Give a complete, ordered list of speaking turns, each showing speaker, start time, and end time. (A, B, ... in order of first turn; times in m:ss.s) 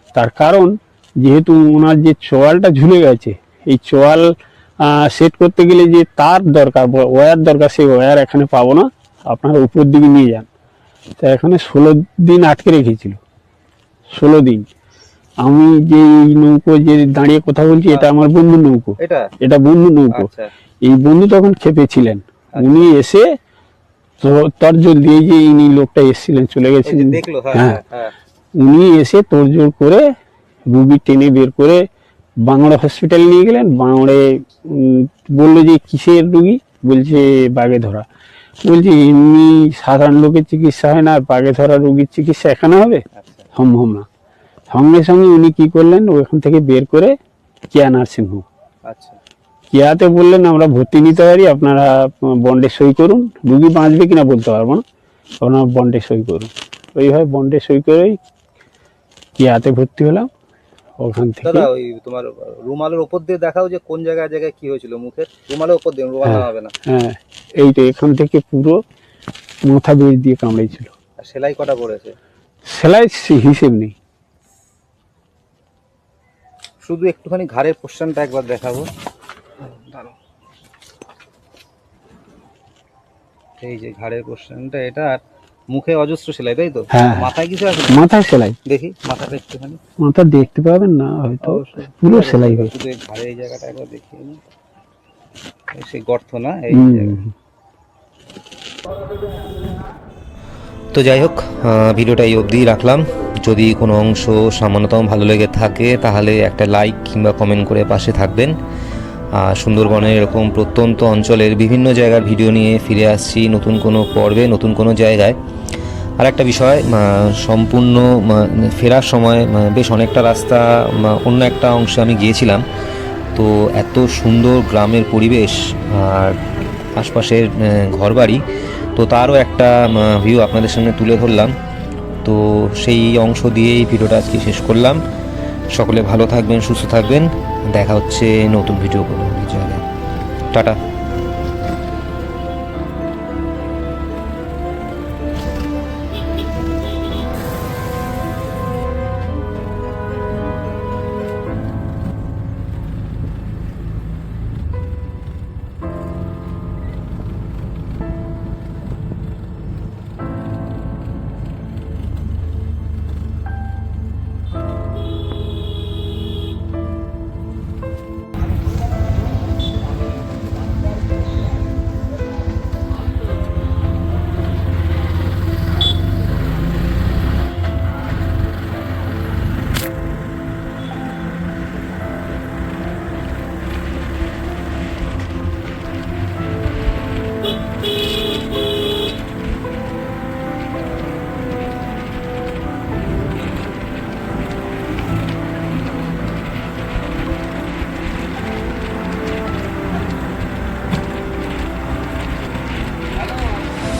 0:00.1-0:10.5 A
0:11.2-0:13.2 A
0:14.1-0:14.7 A
0:15.4-0:20.3 A
0:19.0-0:19.3 B
0:20.2-0:20.5 B
0:20.8-0:23.2 A
0:22.6-0:22.9 B
0:24.2-0:27.8 A
0:26.8-0:28.1 B
0:28.6-0:30.0 A
0:30.7-0:31.8 A
0:32.5-0:38.0 A
0:38.6-0:43.0 A
0:43.2-0:43.5 B
0:43.5-0:44.1 A
0:44.7-0:47.2 A
0:47.7-0:48.4 A
0:48.9-0:49.2 B
0:49.7-0:54.8 A
0:55.4-0:58.2 A
0:59.4-1:00.3 A
1:01.0-1:01.7 A
1:01.4-1:06.7 B
1:06.2-1:08.8 A
1:09.6-1:10.9 A
1:11.2-1:12.2 B
1:12.6-1:13.9 A
1:16.8-1:18.9 B
1:23.6-1:28.0 B
1:26.9-1:27.3 A
1:27.9-1:28.6 A
1:28.7-1:29.8 B
1:30.0-1:32.7 A
1:31.4-1:34.4 B
1:35.7-1:37.2 B
1:36.7-1:37.3 A
1:40.9-1:48.5 C
1:49.4-1:55.4 C
1:56.2-2:02.6 C
2:03.3-2:06.4 C
2:07.0-2:08.4 C
2:09.0-2:11.5 C
2:12.2-2:15.0 C
2:15.7-2:19.8 C
2:20.5-2:20.8 C